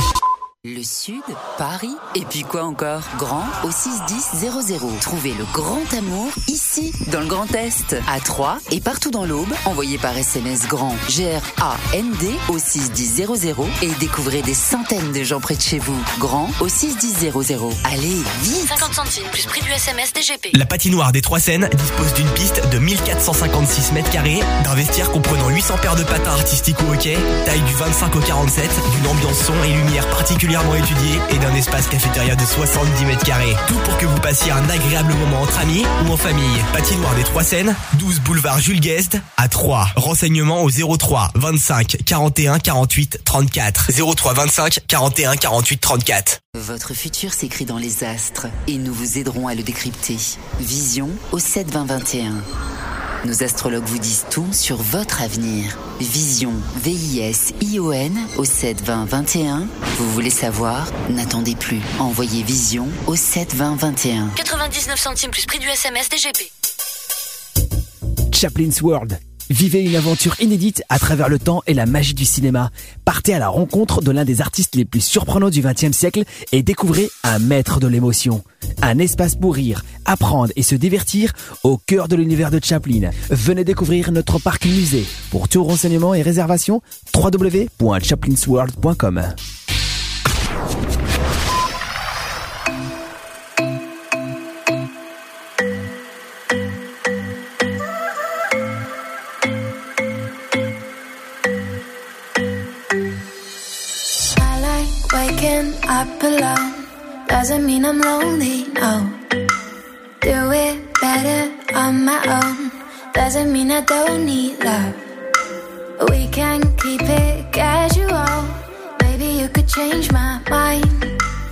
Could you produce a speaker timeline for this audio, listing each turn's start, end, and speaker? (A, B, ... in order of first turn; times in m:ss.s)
0:00.6-0:18.9 A
0:18.7-0:20.6 B
0:20.5-0:46.4 C
0:46.6-0:52.4 A
0:53.2-1:04.4 A
1:04.4-1:06.5 B
1:08.3-1:29.3 D
1:44.3-1:49.3 E
1:50.2-1:55.0 E
1:56.0-2:01.2 E